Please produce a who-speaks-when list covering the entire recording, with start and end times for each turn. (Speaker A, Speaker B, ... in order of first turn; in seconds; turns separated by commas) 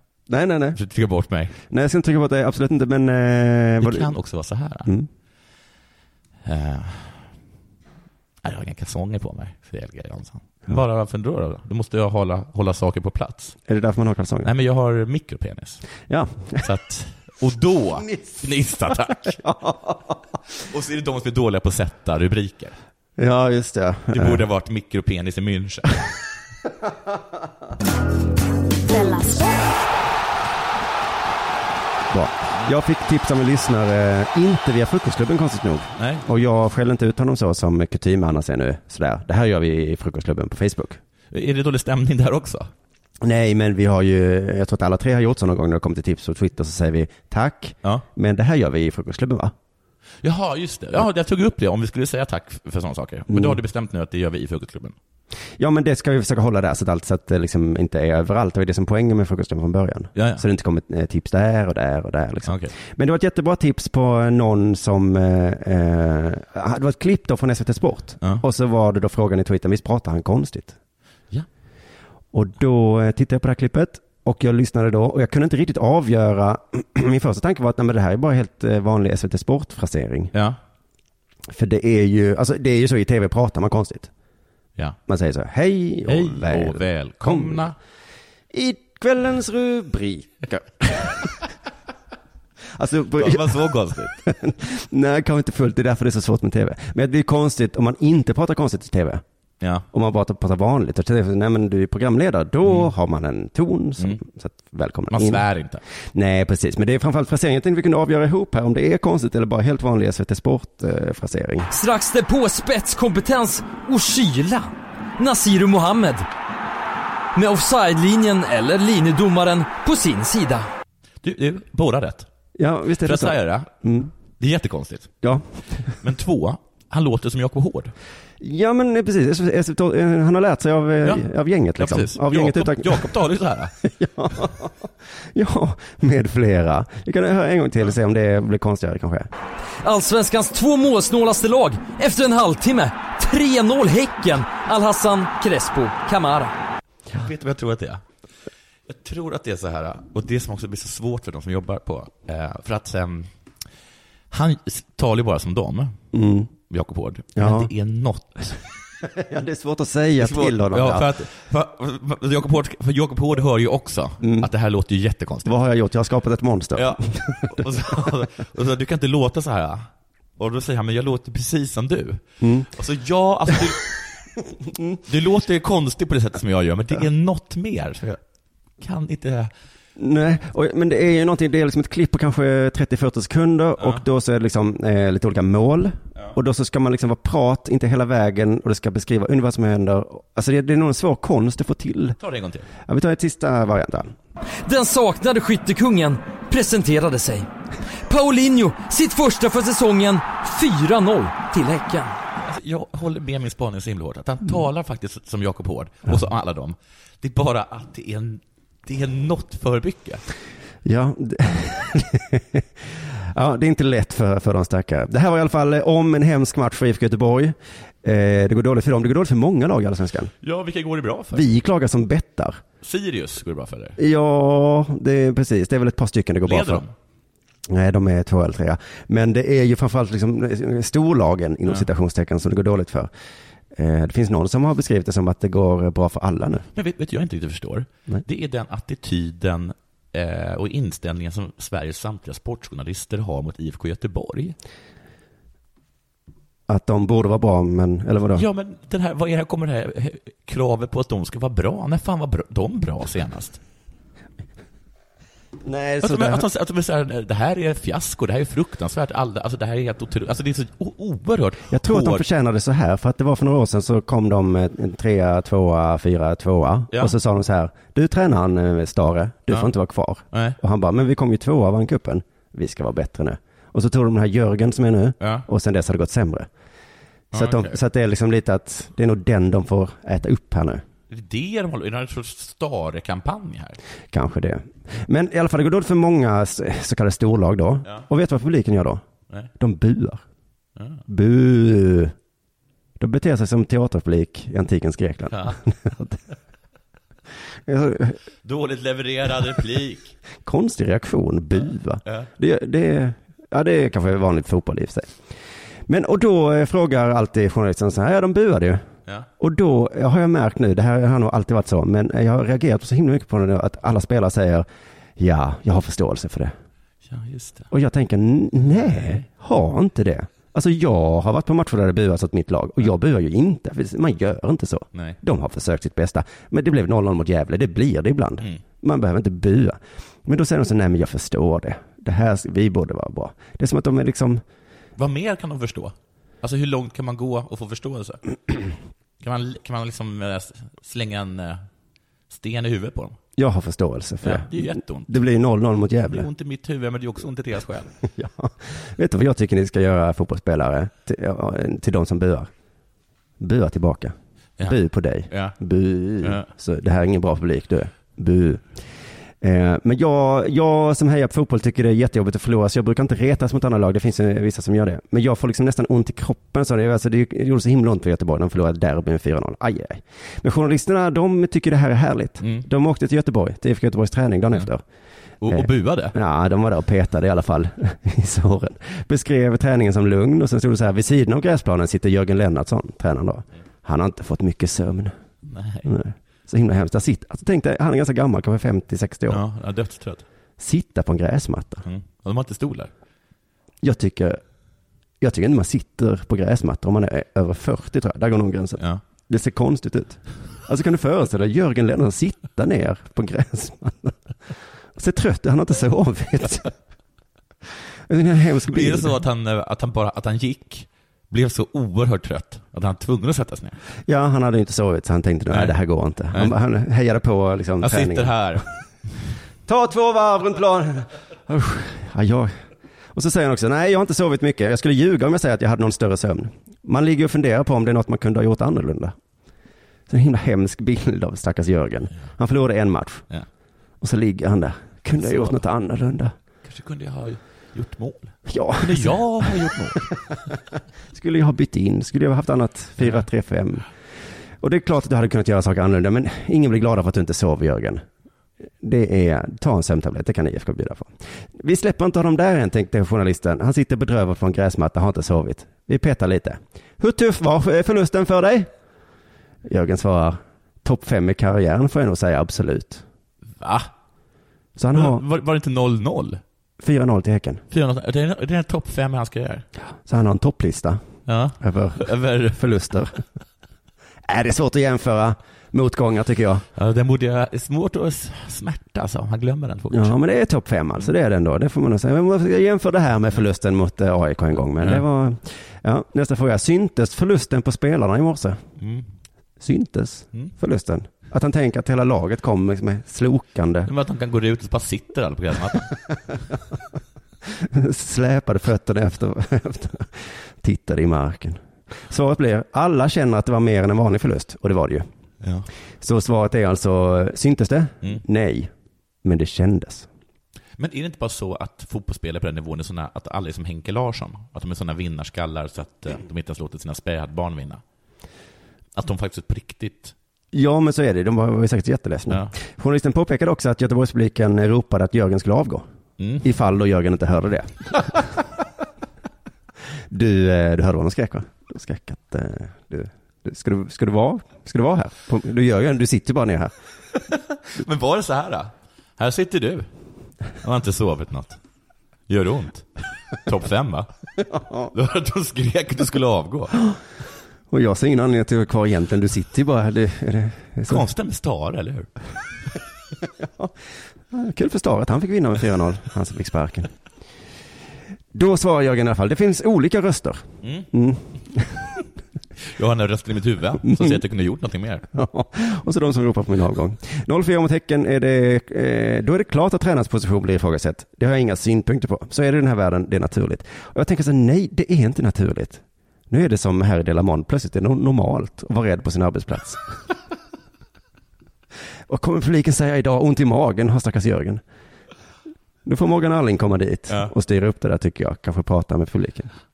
Speaker A: 0.3-0.8, Speaker B: 0.7-1.5, Speaker A: 1.7-4.1, Speaker B: 3.8-4.9, Speaker B: 6.4-7.2, Speaker B: 8.4-13.6, Speaker A: 13.7-14.5, Speaker B: 14.4-15.8, Speaker A: 16.1-16.6, Speaker B: 16.6-19.4, Speaker A: 18.1-18.4, Speaker A: 19.1-20.1, Speaker B: 20.6-22.8, Speaker A: 23.2-24.4, Speaker B: 24.1-26.0, Speaker A: 32.1-41.0, Speaker B: 36.0-36.2, Speaker B: 41.3-42.7, Speaker A: 43.2-49.5, Speaker B: 50.2-54.9, Speaker A: 53.3-53.6, Speaker A: 55.6-70.8, Speaker B: 60.1-60.4, Speaker B: 62.5-62.7, Speaker A: 72.3-80.3, Speaker A: 81.5-84.1, Speaker A: 85.1-87.7, Speaker B: 86.1-87.8, Speaker A: 88.5-91.3, Speaker A: 92.7-99.2, Speaker B: 93.2-94.2, Speaker A: 99.9-105.5, Speaker B: 102.6-102.9, Speaker B: 105.1-105.8, Speaker A: 106.1-111.7, Speaker C: 111.7-116.3, Speaker C: 117.3-120.7, Speaker B: 121.2-122.3, Speaker A: 122.5-124.1, Speaker B: 123.0-123.7, Speaker B: 124.4-125.1, Speaker B: 125.9-127.9, Speaker A: 128.4-133.1, Speaker B: 131.8-133.7, Speaker A: 133.8-139.3, Speaker C: 139.8-146.5, Speaker B: 147.1-148.0, Speaker B: 148.9-153.3, Speaker B: 154.3-156.0, Speaker A: 156.1-156.5, Speaker B: 156.7-158.6, Speaker A: 157.3-157.7, Speaker A: 159.0-161.2, Speaker B: 160.2-165.5, Speaker A: 164.2-164.5, Speaker A: 165.4-167.5, Speaker B: 166.8-169.9, Speaker B: 170.4-173.9, Speaker A: 172.4-172.7, Speaker A: 174.7-175.0, Speaker B: 175.0-178.2, Speaker B: 178.8-179.5, Speaker A: 179.9-192.2, Speaker B: 192.2-192.7, Speaker A: 192.8-194.1, Speaker C: 194.6-197.5, Speaker C: 198.1-202.1, Speaker B: 202.4-210.2, Speaker A: 210.8-212.7, Speaker A: 213.3-220.3, Speaker B: 220.4-221.5, Speaker A: 221.3-222.6, Speaker B: 222.8-224.0, Speaker A: 224.0-226.8, Speaker B: 226.4-226.9, Speaker A: 227.7-233.1, Speaker A: 233.7-236.7, Speaker B: 236.7-244.6, Speaker A: 246.7-248.4, Speaker B: 248.3-253.6, Speaker A: 255.6-256.4, Speaker B: 256.0-262.2, Speaker A: 261.7-276.5, Speaker B: 270.3-270.6, Speaker B: 275.2-275.4, Speaker A: 277.3-280.8, Speaker B: 277.3-277.8, Speaker B: 281.1-283.8, Speaker A: 284.1-289.0, Speaker A: 289.6-290.2, Speaker A: 291.1-292.1, Speaker A: 293.0-296.2, Speaker B: 295.3-295.6, Speaker A: 297.6-298.2, Speaker B: 298.4-300.1, Speaker A: 300.4-305.1, Speaker A: 305.9-308.8, Speaker A: 309.4-316.5, Speaker B: 317.1-317.7, Speaker A: 317.7-334.4, Speaker B: 318.7-319.2, Speaker B: 335.0-338.2, Speaker B: 339.2-341.6, Speaker B: 342.3-343.2, Speaker A: 343.4-346.3, Speaker B: 344.2-345.1, Speaker B: 346.1-347.9, Speaker A: 348.0-352.5, Speaker A: 353.4-358.6, Speaker B: 355.3-355.6, Speaker B: 356.2-356.5, Speaker A: 359.4-374.8, Speaker B: 372.4-372.6, Speaker B: 375.4-376.1, Speaker A: 375.5-385.1, Speaker B: 385.4-385.9, Speaker A: 385.8-389.4, Speaker B: 389.3-390.2, Speaker A: 390.6-391.9, Speaker B: 391.8-392.9, Speaker A: 393.8-394.4, Speaker A: 395.2-404.2, Speaker A: 404.9-406.7, Speaker A: 408.1-409.1, Speaker B: 408.7-413.8, Speaker A: 414.1-418.7, Speaker B: 417.8-418.6, Speaker A: 419.6-422.5, Speaker A: 423.1-429.1, Speaker A: 430.1-433.2, Speaker A: 434.0-436.3, Speaker B: 435.2-435.6, Speaker B: 436.6-440.1, Speaker A: 438.5-440.3, Speaker A: 441.1-443.9, Speaker A: 444.6-448.0, Speaker A: 448.8-458.7, Speaker A: 459.6-463.0, Speaker B: 463.6-463.9, Speaker A: 464.8-465.2, Speaker B: 464.9-466.4, Speaker A: 466.8-467.6, Speaker B: 467.7-469.6, Speaker A: 470.1-471.0, Speaker B: 471.3-472.6, Speaker A: 471.6-473.2, Speaker A: 474.2-476.6, Speaker B: 476.8-480.1, Speaker A: 479.9-488.6, Speaker B: 488.8-489.1, Speaker A: 489.6-493.9, Speaker B: 493.9-495.9, Speaker A: 497.5-505.1, Speaker B: 505.4-505.7, Speaker A: 506.0-508.7, Speaker A: 509.2-510.1, Speaker B: 510.8-517.8, Speaker B: 518.9-520.1, Speaker A: 520.5-525.8, Speaker B: 526.2-526.4, Speaker A: 526.4-528.1, Speaker A: 530.1-536.7, Speaker B: 537.3-539.9, Speaker B: 540.6-541.6, Speaker B: 542.3-542.9, Speaker B: 543.4-544.1, Speaker A: 544.5-544.9, Speaker B: 544.9-546.8, Speaker A: 547.7-551.1, Speaker B: 550.9-552.1, Speaker A: 553.4-553.7, Speaker A: 554.3-556.9, Speaker A: 558.3-561.9, Speaker B: 560.6-560.9, Speaker B: 562.6-565.0, Speaker A: 563.8-564.2, Speaker A: 565.1-579.8, Speaker A: 582.1-584.6, Speaker A: 585.8-589.5